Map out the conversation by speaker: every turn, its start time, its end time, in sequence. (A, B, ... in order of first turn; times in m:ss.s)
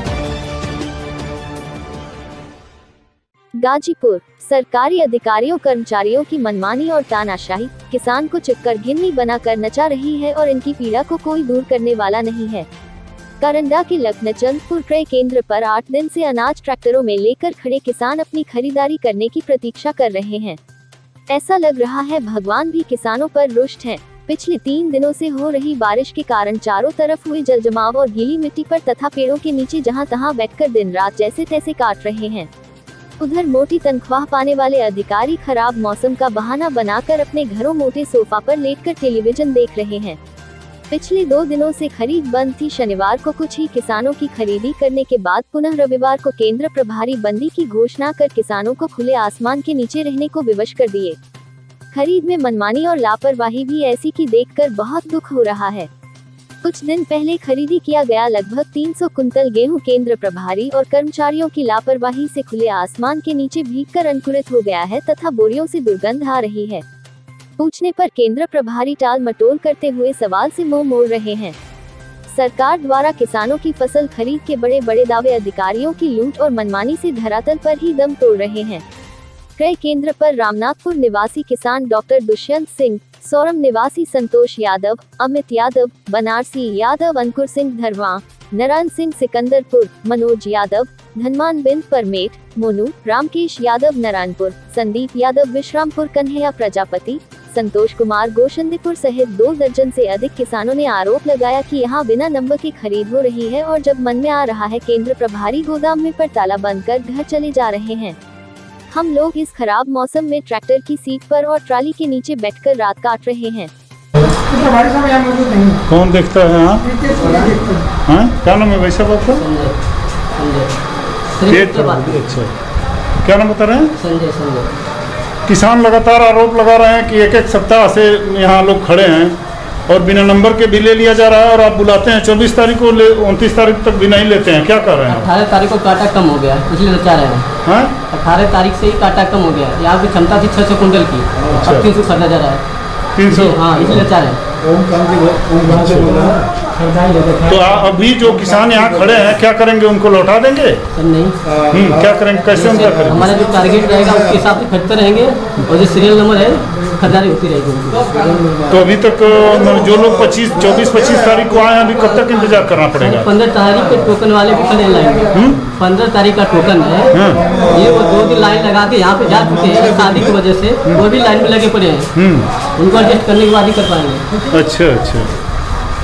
0:03.6-0:12.7 A
0:13.4-0:20.6 A
0:21.3-0:32.5 A
0:33.2-0:40.2 A
0:40.9-0:51.2 A
0:51.9-0:55.9 A
0:56.6-1:06.8 A
1:07.6-1:11.6 A
1:12.3-1:18.8 A
1:19.6-1:48.2 A
1:48.9-1:53.7 A
1:54.6-1:55.8 B
1:55.8-1:57.0 C
1:57.2-1:57.6 D
1:58.1-1:59.4 C
1:59.4-1:59.8 D
2:00.4-2:00.7 D
2:01.4-2:02.2 D
2:01.5-2:02.5 C
2:03.2-2:03.9 C
2:04.0-2:04.7 D
2:05.5-2:09.4 C
2:09.9-2:15.3 C
2:15.1-2:17.5 D
2:17.6-2:17.9 C
2:18.1-2:22.6 D
2:21.5-2:21.9 C
2:23.2-2:24.0 C
2:23.3-2:24.4 D
2:24.7-2:25.6 B
2:25.6-2:26.3 C
2:26.9-2:27.4 D
2:27.4-2:30.8 C
2:31.0-2:31.4 D
2:31.7-2:33.4 C
2:32.5-2:38.7 D
2:38.7-2:43.3 C
2:43.0-2:47.1 D
2:45.3-2:45.6 C
2:47.1-2:47.4 C
2:47.7-2:52.1 D
2:52.2-2:52.5 C
2:52.8-2:54.2 D
2:54.5-2:55.3 C